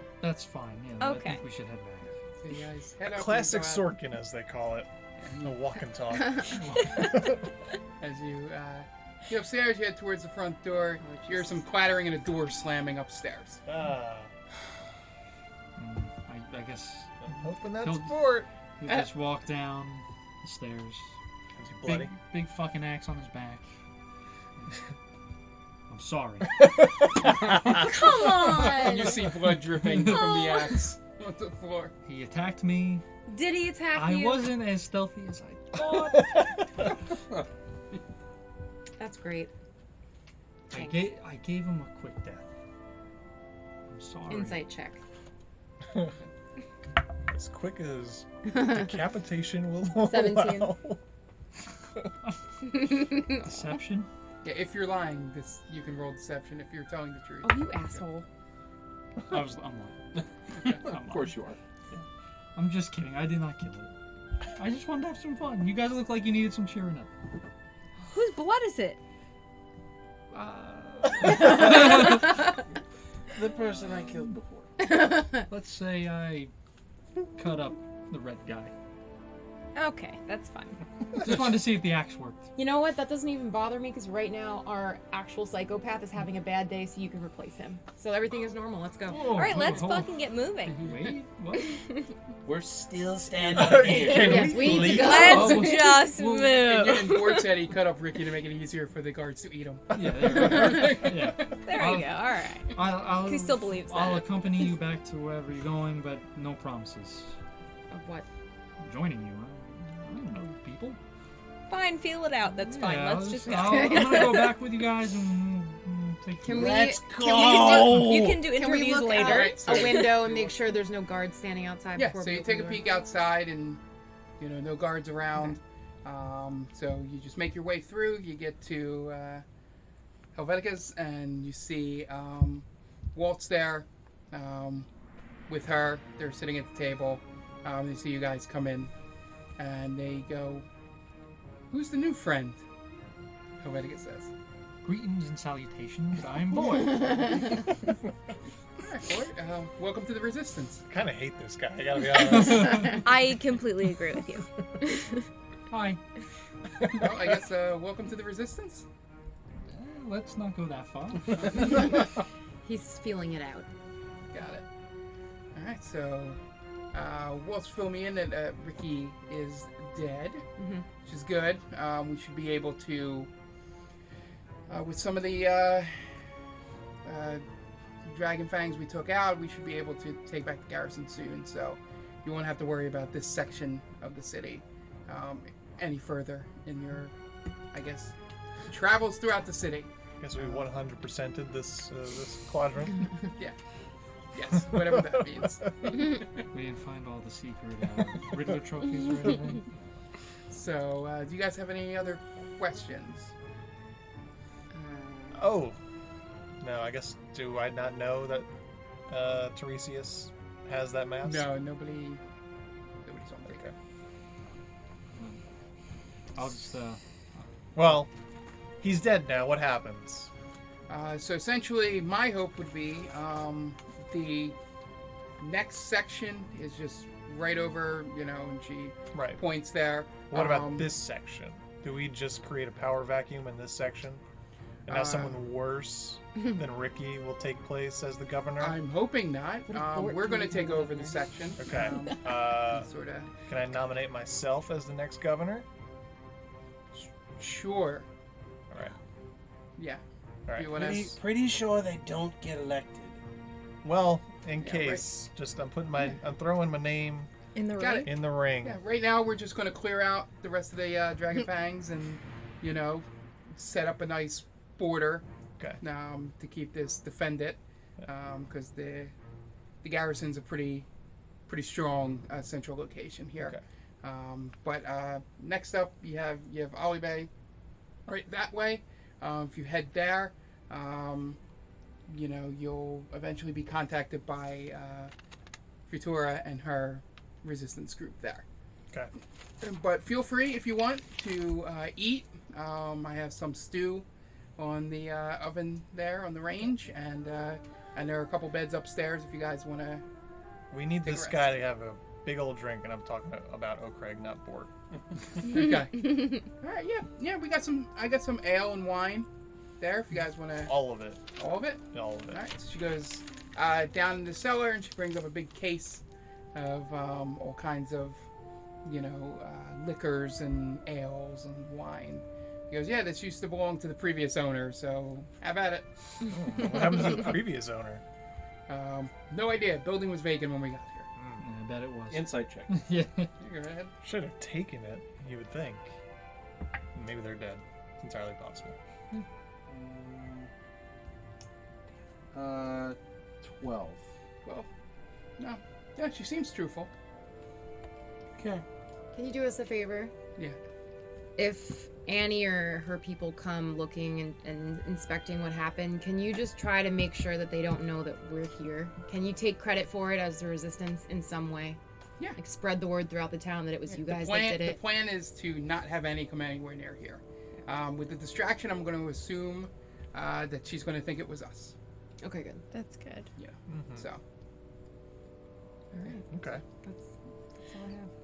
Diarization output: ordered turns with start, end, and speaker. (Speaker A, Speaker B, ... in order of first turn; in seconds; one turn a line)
Speaker A: 0.2-2.1
Speaker B: 1.0-1.4
Speaker C: 2.4-3.9
Speaker D: 3.1-4.9
Speaker C: 5.2-5.7
Speaker D: 5.4-7.2
Speaker A: 6.5-7.1
Speaker C: 8.0-13.6
Speaker E: 11.0-11.7
Speaker D: 13.7-14.3
Speaker A: 15.8-17.3
Speaker D: 17.2-18.5
Speaker A: 17.8-18.1
Speaker A: 18.8-21.1
Speaker D: 21.6-22.1
Speaker A: 21.9-23.6
Speaker A: 25.9-26.6
Speaker D: 26.6-27.9
Speaker E: 27.8-29.2
Speaker B: 27.9-29.1
Speaker C: 28.5-31.9
Speaker A: 29.8-30.3
Speaker B: 30.1-30.8
Speaker A: 32.1-33.0
Speaker E: 33.3-34.5
Speaker A: 33.9-36.4
Speaker D: 35.8-36.8
Speaker E: 39.0-39.5
Speaker E: 40.7-41.0
Speaker A: 40.7-42.5
Speaker A: 43.9-44.7
Speaker E: 44.3-45.0
Speaker D: 47.3-51.0
Speaker E: 48.5-48.9
Speaker E: 50.0-50.8
Speaker E: 52.7-53.5
Speaker A: 53.1-54.1
Speaker C: 54.4-57.7
Speaker E: 57.4-58.3
Speaker A: 59.3-60.0
Speaker F: 60.2-61.6
Speaker A: 60.6-61.4
Speaker A: 62.5-63.9
Speaker A: 64.6-67.1
Speaker B: 68.1-69.0
Speaker A: 70.3-72.5
Speaker F: 73.3-74.8
Speaker E: 74.8-75.5
Speaker A: 75.5-76.5
Speaker A: 77.3-78.7
Speaker B: 79.8-80.8
Speaker A: 81.2-82.5
Speaker E: 82.6-89.3
Speaker A: 89.1-90.1
Speaker B: 89.3-90.9
Speaker A: 90.8-91.8
Speaker B: 91.7-92.1
Speaker F: 92.5-95.3
Speaker D: 93.5-95.2
Speaker E: 94.0-95.8
Speaker A: 94.2-96.6
Speaker B: 94.9-97.5
Speaker C: 96.6-101.4
Speaker A: 99.9-102.2
Speaker B: 100.6-101.0
Speaker B: 101.6-104.4
Speaker A: 102.7-107.4
Speaker E: 107.9-108.3
Speaker A: 108.8-111.0
Speaker B: 111.7-114.5
Speaker A: 112.7-116.8
Speaker E: 113.5-114.4
Speaker E: 116.4-122.8
Speaker F: 116.5-118.4
Speaker B: 117.2-120.2
Speaker C: 119.2-120.6
Speaker C: 122.0-123.8
Speaker C: 124.4-129.4
Speaker C: 130.3-134.9
Speaker C: 135.5-138.9
Speaker C: 139.6-140.7
Speaker C: 141.7-142.6
Speaker C: 143.6-144.3
Speaker A: 144.8-147.6
Speaker C: 148.8-150.9
Speaker D: 150.9-153.1
Speaker A: 152.3-152.9
Speaker B: 152.9-155.2
Speaker A: 155.7-156.0
Speaker C: 156.9-158.9
Speaker A: 159.7-161.8
Speaker E: 162.6-163.7
Speaker C: 164.3-164.6
Speaker C: 165.5-166.4
Speaker C: 166.9-170.4
Speaker E: 170.6-170.9
Speaker C: 171.0-173.3
Speaker C: 174.7-176.1
Speaker C: 177.0-177.4
Speaker C: 178.1-187.1
Speaker C: 187.7-188.2
Speaker C: 188.7-190.7
Speaker D: 190.2-193.1
Speaker C: 194.3-196.4
Speaker D: 194.6-195.5
Speaker A: 196.5-199.7
Speaker C: 200.5-203.3
Speaker E: 204.7-205.4
Speaker D: 205.3-205.8
Speaker D: 206.6-208.5
Speaker D: 209.1-211.5
Speaker C: 211.2-212.2
Speaker C: 213.1-213.7
Speaker D: 213.5-213.7
Speaker A: 215.2-215.4
Speaker A: 216.3-217.8
Speaker D: 217.8-218.1
Speaker D: 218.8-220.3
Speaker C: 220.9-224.6
Speaker C: 225.4-230.9
Speaker D: 229.1-229.4
Speaker D: 230.3-234.2
Speaker D: 234.9-238.8
Speaker C: 234.9-235.4
Speaker C: 238.6-243.3
Speaker E: 239.7-242.1
Speaker D: 241.6-242.9
Speaker D: 243.5-245.7
Speaker C: 247.4-248.1
Speaker C: 249.8-250.0
Speaker D: 250.5-251.1
Speaker C: 250.6-251.1
Speaker F: 250.7-253.2
Speaker D: 253.8-257.3
Speaker C: 254.6-255.0
Speaker B: 257.6-258.1
Speaker C: 257.8-265.3
Speaker D: 258.0-258.8
Speaker C: 265.8-269.1
Speaker C: 269.8-270.9
Speaker C: 271.5-277.3
Speaker C: 278.1-281.4
Speaker C: 282.1-285.1
Speaker C: 285.9-288.4
Speaker C: 289.6-294.1
Speaker C: 294.6-300.0
Speaker D: 300.7-304.7
Speaker C: 301.0-301.6
Speaker C: 305.4-309.3
Speaker C: 309.8-310.7
Speaker D: 310.7-311.2
Speaker C: 311.4-318.3
Speaker D: 311.9-312.4
Speaker C: 318.8-325.9
Speaker D: 326.3-328.0
Speaker C: 328.7-331.1
Speaker D: 331.2-331.4
Speaker A: 331.4-333.3
Speaker F: 332.1-332.8
Speaker C: 333.4-333.9
Speaker D: 334.0-335.9
Speaker D: 336.9-338.8
Speaker F: 339.7-340.5
Speaker F: 342.3-344.1
Speaker C: 345.4-346.9
Speaker F: 348.4-348.6
Speaker E: 349.1-350.1
Speaker E: 351.4-361.8
Speaker E: 362.4-364.8
Speaker C: 363.9-371.8
Speaker E: 372.2-372.7
Speaker B: 372.7-373.3
Speaker C: 373.4-374.2
Speaker D: 373.7-374.1
Speaker E: 375.9-376.3
Speaker D: 376.3-376.6
Speaker E: 376.8-378.1